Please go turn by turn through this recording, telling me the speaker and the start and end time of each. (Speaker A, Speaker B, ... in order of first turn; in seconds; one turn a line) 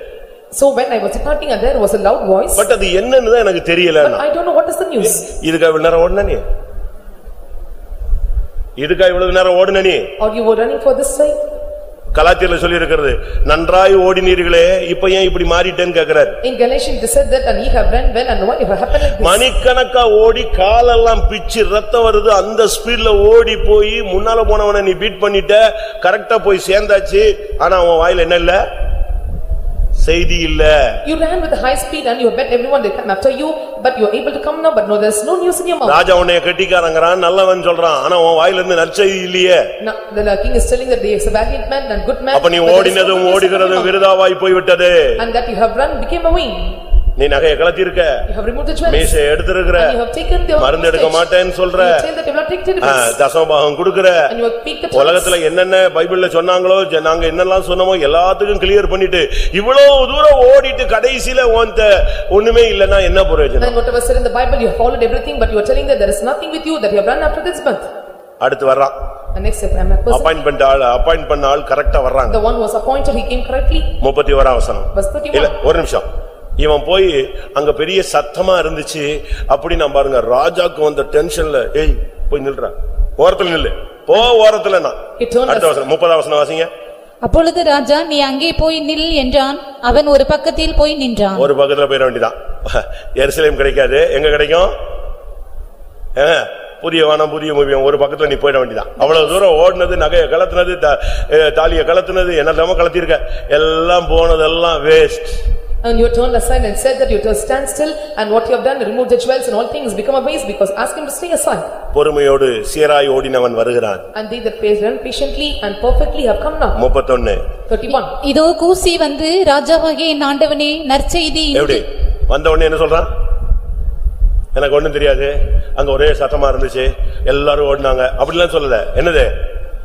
Speaker A: 0.5-2.6
Speaker B: 2.6-4.2
Speaker A: 4.1-5.2
Speaker B: 5.1-6.4
Speaker B: 8.8-10.1
Speaker A: 10.2-11.4
Speaker B: 12.1-16.4
Speaker A: 16.4-19.4
Speaker B: 19.2-28.6
Speaker B: 30.0-31.0
Speaker A: 31.1-36.0
Speaker B: 35.9-39.7
Speaker A: 39.8-43.9
Speaker B: 42.3-45.2
Speaker A: 45.2-46.8
Speaker B: 47.2-48.3
Speaker A: 48.3-49.1
Speaker B: 48.9-50.0
Speaker A: 49.8-51.2
Speaker B: 50.6-52.0
Speaker A: 51.8-53.1
Speaker B: 52.8-54.3
Speaker A: 54.3-55.4
Speaker B: 54.9-63.8
Speaker A: 63.7-67.9
Speaker B: 68.4-68.9
Speaker A: 69.3-70.2
Speaker B: 70.1-72.4
Speaker A: 72.3-73.9
Speaker B: 74.0-76.0
Speaker A: 74.9-75.5
Speaker B: 76.6-86.7
Speaker A: 85.2-85.6
Speaker C: 87.2-91.5
Speaker B: 91.4-94.7
Speaker B: 96.2-105.4
Speaker A: 105.8-111.7
Speaker B: 111.9-114.1
Speaker A: 114.1-116.8
Speaker B: 116.8-117.4
Speaker A: 117.7-118.1
Speaker C: 117.9-121.8
Speaker B: 121.5-123.1
Speaker B: 124.5-129.3